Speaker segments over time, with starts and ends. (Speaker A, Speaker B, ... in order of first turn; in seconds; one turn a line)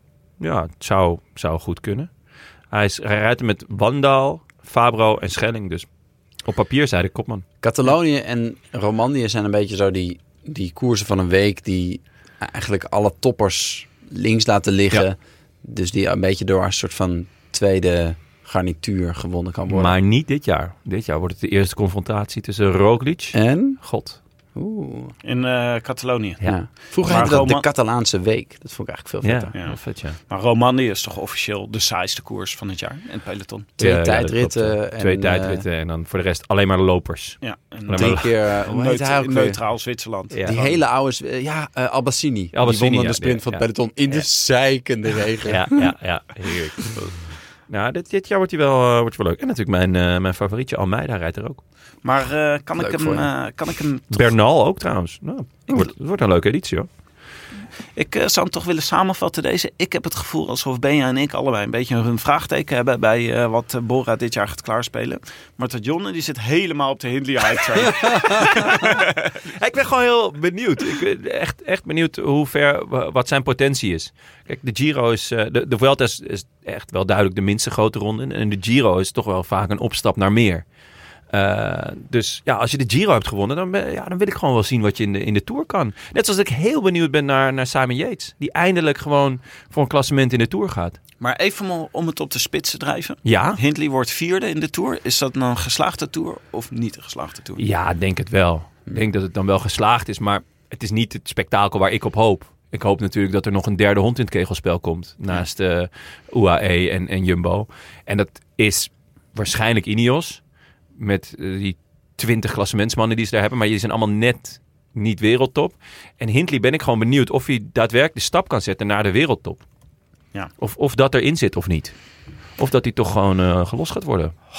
Speaker A: 0.4-2.1
Speaker A: 2.7-5.9
Speaker A: 6.4-7.4
Speaker B: 7.6-19.9
Speaker A: 19.7-24.2
Speaker B: 23.3-23.8
Speaker B: 24.5-25.1
Speaker C: 25.2-27.6
Speaker B: 26.4-29.5
Speaker A: 29.2-30.2
Speaker C: 29.5-33.7
Speaker B: 33.8-35.6
Speaker A: 33.8-38.2
Speaker C: 37.4-40.8
Speaker B: 37.9-39.6
Speaker A: 40.3-40.5
Speaker B: 40.4-45.9
Speaker A: 42.5-44.2
Speaker A: 45.4-47.1
Speaker A: 47.7-51.6
Speaker C: 52.0-54.2
Speaker B: 52.8-53.3
Speaker A: 54.1-56.9
Speaker C: 57.9-69.3
Speaker A: 68.3-80.6
Speaker A: 81.3-91.0
Speaker C: 91.2-97.6
Speaker A: 93.2-93.6
Speaker A: 97.6-110.4
Speaker A: 111.0-119.6
Speaker A: 120.6-121.9
Speaker A: 122.6-124.3